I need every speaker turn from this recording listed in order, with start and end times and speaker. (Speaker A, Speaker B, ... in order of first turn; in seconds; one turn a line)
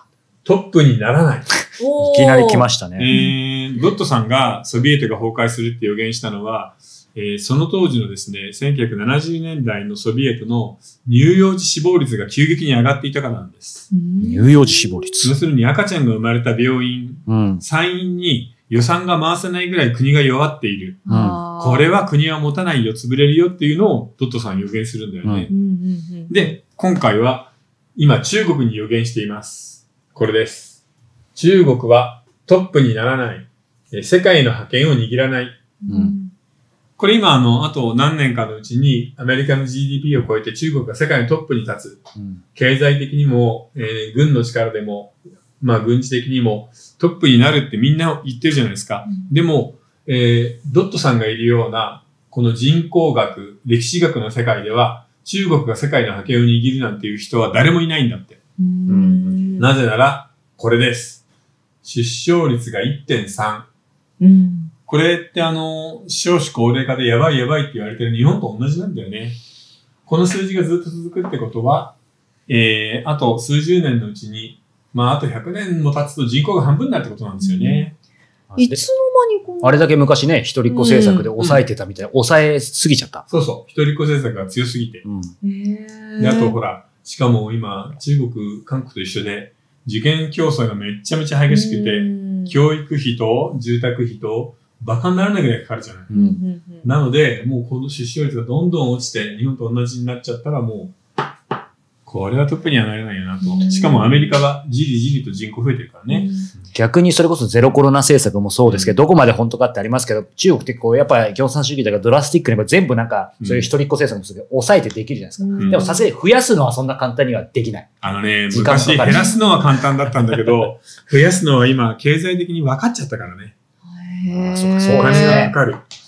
Speaker A: 0.5-1.5
Speaker B: 1.8-3.3
Speaker C: 2.0-3.1
Speaker A: 3.0-13.9
Speaker B: 13.9-15.2
Speaker C: 14.2-15.3
Speaker A: 15.2-25.5
Speaker C: 17.3-17.6
Speaker B: 21.1-21.9
Speaker C: 21.1-21.4
Speaker C: 25.2-25.5
Speaker B: 25.5-26.4
Speaker A: 26.3-30.8
Speaker A: 31.4-35.6
Speaker B: 35.8-36.3
Speaker C: 35.9-36.1
Speaker A: 37.0-42.0
Speaker C: 42.2-42.4
Speaker A: 42.5-58.4
Speaker B: 58.6-59.7
Speaker A: 58.9-61.2
Speaker A: 61.8-63.7
Speaker B: 64.2-64.7
Speaker A: 64.9-69.4
Speaker A: 70.1-72.0
Speaker A: 72.5-78.0
Speaker B: 77.4-77.9
Speaker C: 78.5-78.9
Speaker B: 78.6-79.9
Speaker C: 79.6-83.3
Speaker B: 80.7-81.3
Speaker A: 81.4-81.7
Speaker A: 83.3-85.0
Speaker C: 85.0-85.3
Speaker B: 85.4-86.6
Speaker A: 86.2-96.1
Speaker B: 91.5-92.6
Speaker C: 96.1-96.4
Speaker B: 96.1-96.9
Speaker A: 96.8-100.9
Speaker A: 102.1-106.3
Speaker B: 103.4-104.4
Speaker B: 106.1-106.5
Speaker C: 106.7-117.9
Speaker A: 108.7-109.0
Speaker A: 113.4-113.7
Speaker B: 115.4-116.1
Speaker A: 115.6-115.9
Speaker A: 118.0-123.5
Speaker C: 118.5-119.3
Speaker B: 119.0-119.7
Speaker B: 123.9-125.5
Speaker C: 124.3-125.6
Speaker A: 124.8-125.8